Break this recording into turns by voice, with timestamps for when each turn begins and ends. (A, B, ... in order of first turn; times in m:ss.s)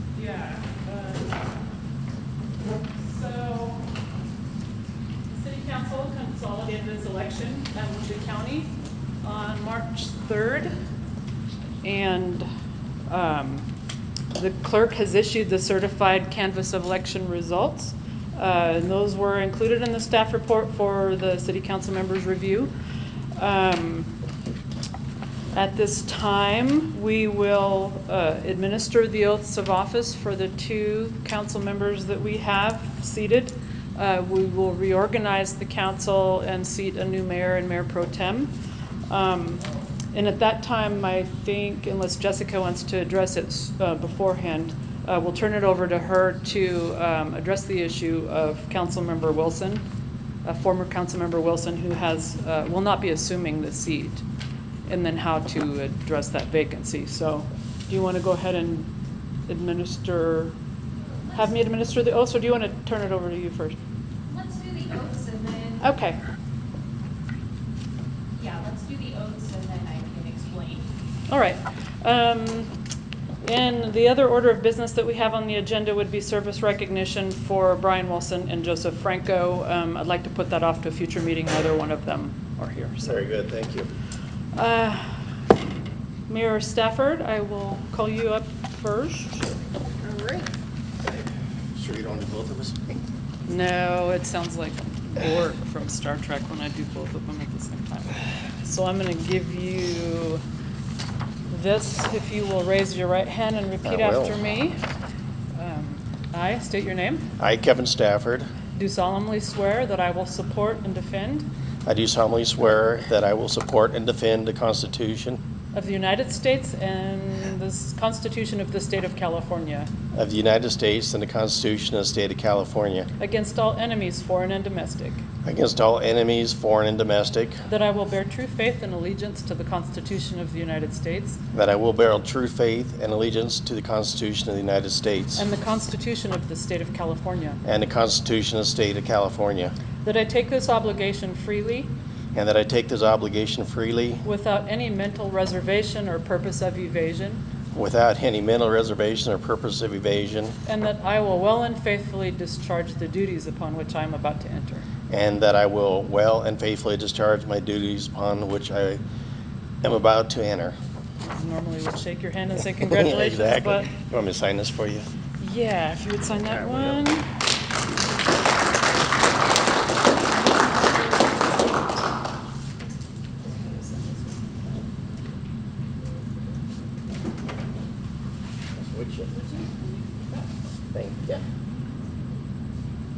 0:00.1-0:01.4 A
0:03.0-0:03.9 A
0:05.3-0:08.7 A
0:09.2-0:10.7 A
0:11.8-0:12.5 A
0:13.1-0:13.7 A
0:14.3-0:22.7 A
0:23.4-0:24.1 A
0:25.5-0:38.5 A
0:39.1-0:49.8 A
0:50.4-0:54.2 A
0:54.9-0:58.9 A
0:59.5-1:00.6 A
1:01.3-1:03.8 A
1:04.3-1:05.8 B
1:05.8-1:06.2 A
1:08.4-1:10.8 B
1:11.3-1:12.7 A
1:13.4-1:23.2 A
1:23.0-1:23.9 C
1:24.5-1:25.2 A
1:26.3-1:29.5 A
1:31.8-1:33.0 C
1:33.4-1:40.4 A
1:41.5-1:44.8 A
1:43.8-1:44.4 C
1:45.6-1:47.2 A
1:47.4-1:48.5 C
1:48.7-1:51.5 A
1:51.9-1:55.4 C
1:55.7-1:59.9 A
2:00.1-2:03.1 C
2:03.2-2:05.2 A
2:05.4-2:07.6 C
2:07.7-2:11.4 A
2:11.5-2:15.4 C
2:15.4-2:17.6 A
2:17.6-2:19.7 C
2:20.0-2:21.9 A
2:22.3-2:24.2 C
2:24.2-2:27.4 A
2:27.7-2:30.6 C
2:30.7-2:34.9 A
2:35.1-2:39.0 C
2:39.8-2:40.8 C
2:41.2-2:43.9 A
2:42.8-2:45.0 C
2:45.4-2:47.3 A
2:46.4-2:47.0 C
2:53.5-2:54.4 A
2:58.8-2:59.3 C
2:59.3-3:00.5 A
3:00.9-3:01.4 C